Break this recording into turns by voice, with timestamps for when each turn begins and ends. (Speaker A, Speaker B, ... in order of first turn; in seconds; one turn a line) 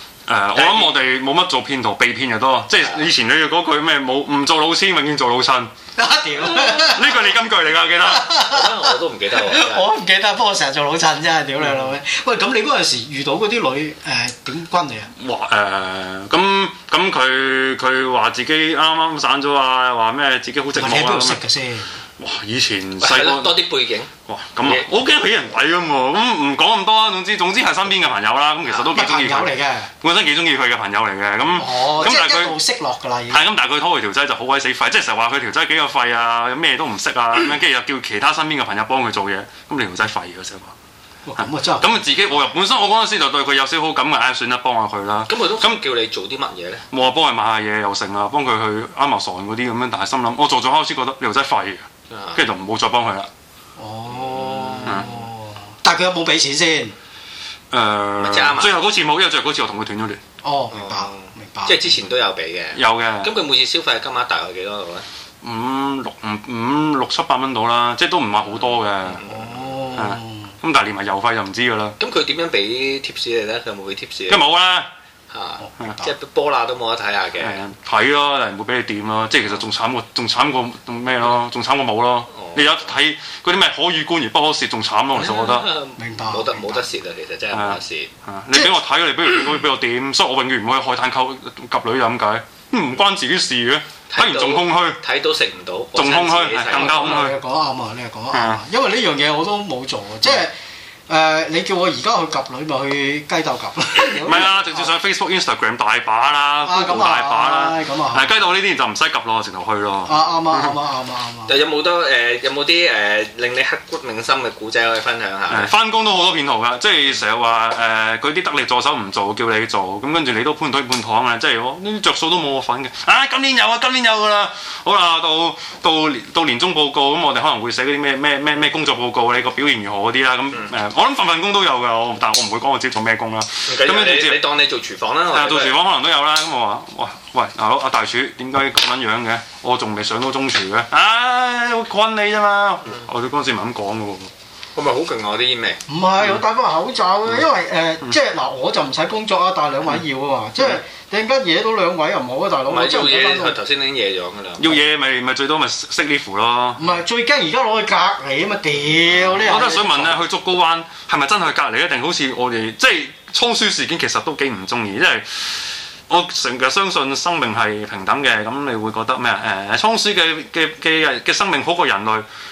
Speaker A: 0.3-5.7
Speaker B: 0.5-0.9
Speaker C: 6.0-7.2
Speaker A: 6.4-8.3
Speaker C: 8.1-15.1
Speaker B: 8.4-9.9
Speaker A: 15.2-21.4
Speaker C: 20.8-21.9
Speaker A: 22.2-23.6
Speaker B: 23.0-24.9
Speaker A: 24.3-32.6
Speaker B: 28.6-28.9
Speaker C: 28.9-29.9
Speaker C: 31.6-33.4
Speaker A: 33.3-40.7
Speaker C: 41.3-41.9
Speaker A: 41.4-45.8
Speaker B: 45.3-46.9
Speaker A: 46.9-53.3
Speaker B: 52.1-52.4
Speaker C: 53.8-57.0
Speaker B: 54.1-55.2
Speaker A: 57.7-60.2
Speaker B: 58.2-58.9
Speaker C: 60.4-61.8
Speaker B: 60.7-65.1
Speaker A: 62.7-63.3
Speaker A: 65.4-69.2
Speaker B: 68.6-70.0
Speaker C: 69.2-70.5
Speaker A: 70.0-72.0
Speaker B: 72.0-74.4
Speaker A: 74.3-74.9
Speaker B: 75.3-77.6
Speaker C: 75.6-76.1
Speaker A: 77.4-85.7
Speaker B: 82.3-82.8
Speaker B: 85.2-88.1
Speaker C: 86.0-86.8
Speaker A: 87.5-95.0
Speaker B: 94.1-97.2
Speaker A: 96.0-97.4
Speaker C: 96.7-100.5
Speaker A: 98.3-98.6
Speaker C: 101.1-104.9
Speaker A: 104.0-110.7
Speaker C: 106.7-108.3
Speaker C: 110.0-111.5
Speaker B: 111.5-115.7
Speaker A: 115.5-134.4
Speaker B: 133.7-135.8
Speaker A: 135.3-144.3
Speaker B: 144.8-145.8
Speaker C: 145.9-153.6
Speaker B: 152.7-154.8
Speaker A: 154.6-156.8
Speaker C: 156.8-160.2
Speaker A: 159.4-172.3